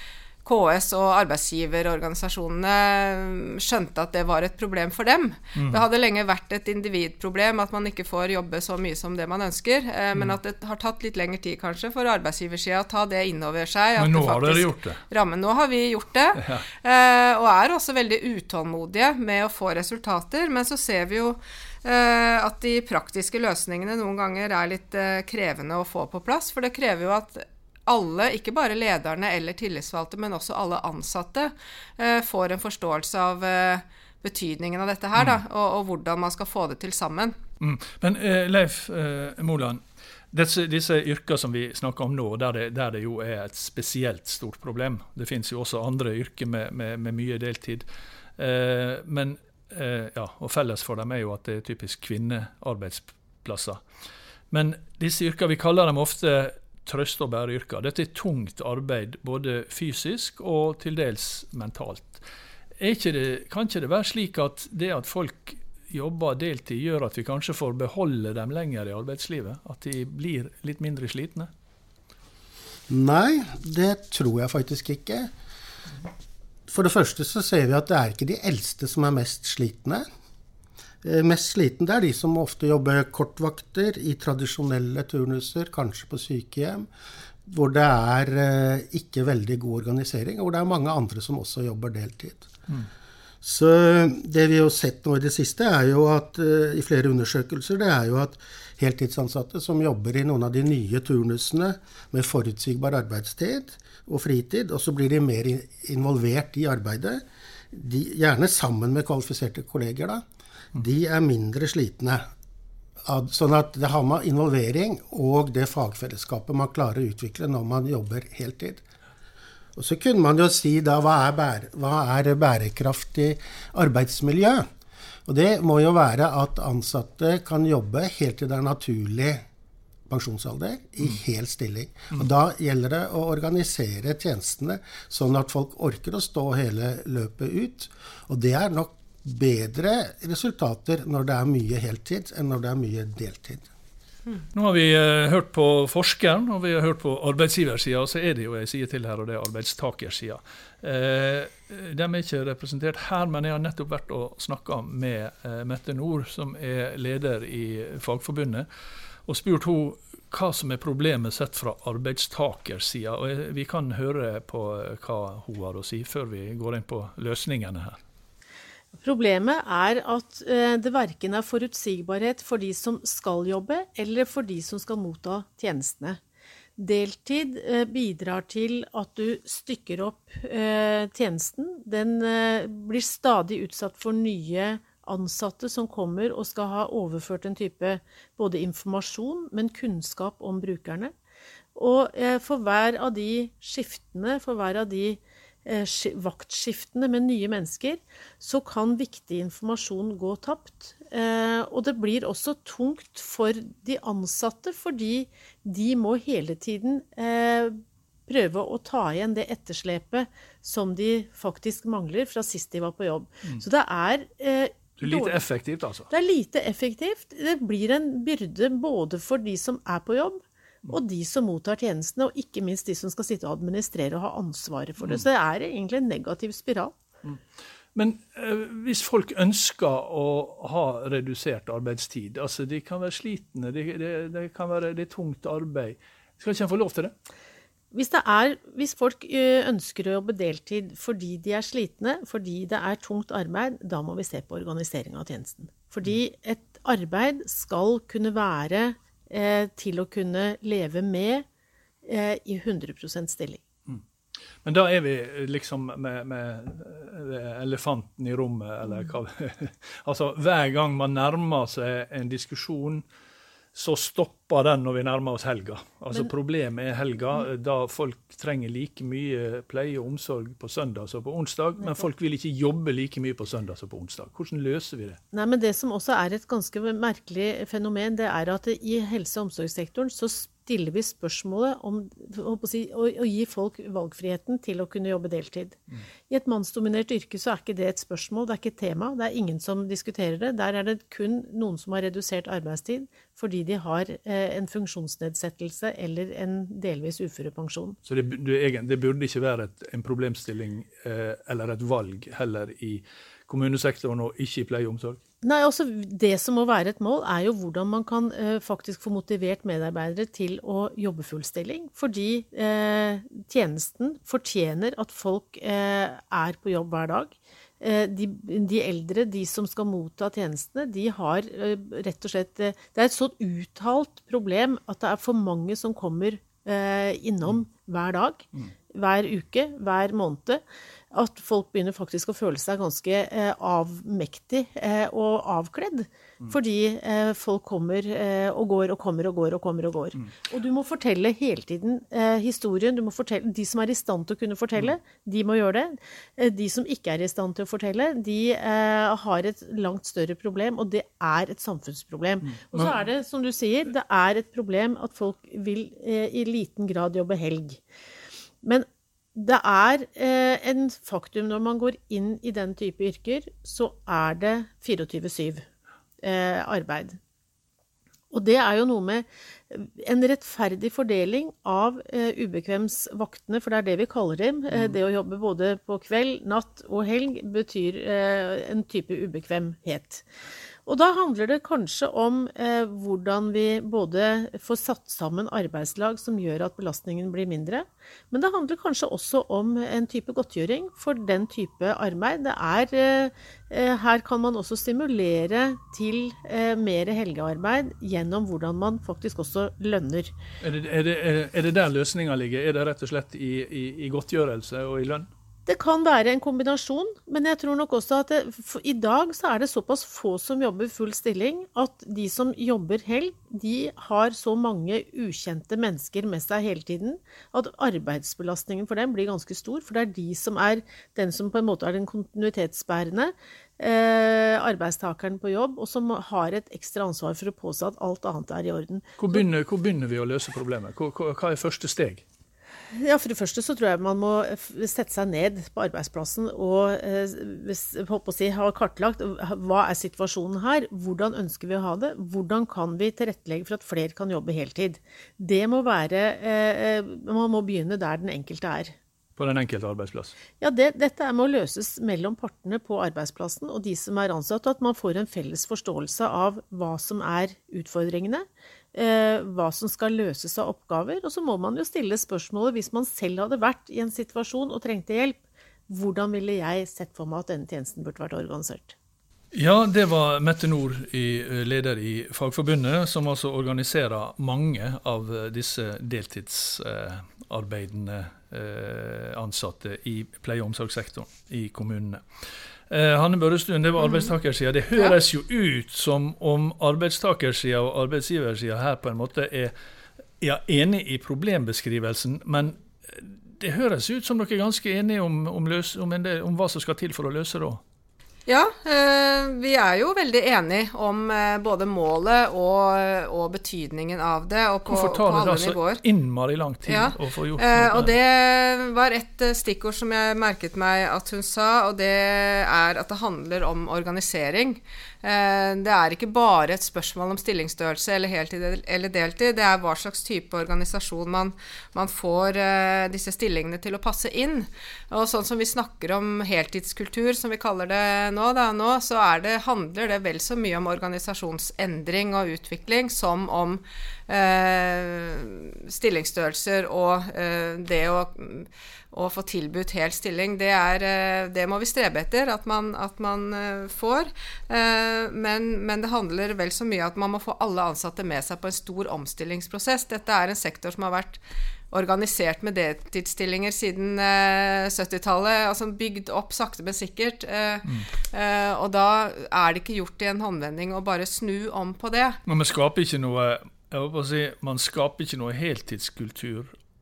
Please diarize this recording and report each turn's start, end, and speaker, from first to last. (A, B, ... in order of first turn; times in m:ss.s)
0:00.4-0:37.4 A
0:05.6-0:05.8 B
0:14.0-0:15.0 B
0:16.4-0:16.6 B
0:35.2-0:35.4 B
0:37.6-0:47.9 B
0:48.4-0:53.8 B
0:54.5-1:02.2 B
1:02.8-1:11.5 B
1:12.9-1:15.3 C
1:16.7-1:20.0 C
1:21.0-1:26.9 C
1:27.5-1:32.5 C
1:33.4-1:50.2 C
1:50.7-1:52.2 C
1:53.0-1:58.8 C
1:59.8-2:04.7 C
2:05.3-2:09.4 C
2:10.1-2:23.7 C
2:24.5-2:38.7 B
2:39.3-2:48.0 B
2:49.0-2:56.2 D
2:56.8-3:11.1 D
3:11.8-3:35.4 D
3:35.0-3:36.1 B
3:36.1-3:47.0 D
3:48.0-3:57.1 B
3:57.9-4:11.4 D
4:12.0-4:13.6 D
4:14.6-4:23.0 B
4:23.7-4:35.2 B
4:35.3-4:58.0 D
4:58.1-5:05.2 B
5:05.4-5:57.8 D
5:58.6-6:05.7 D
6:06.2-6:07.2 D
6:08.3-6:20.3 D
6:20.9-6:40.3 D
6:40.6-6:45.3 B
6:45.7-7:09.4 D
7:09.2-7:12.2 B
7:12.9-7:29.0 D
7:29.4-7:30.3 B
7:30.6-7:45.4 D
7:45.9-7:49.0 D
7:49.5-8:02.2 B
8:02.9-8:09.7 B
8:04.0-8:04.3 A
8:10.4-8:17.8 B
8:18.5-8:26.0 A
8:24.9-8:28.2 B
8:26.9-9:22.4 A
9:22.5-9:26.7 B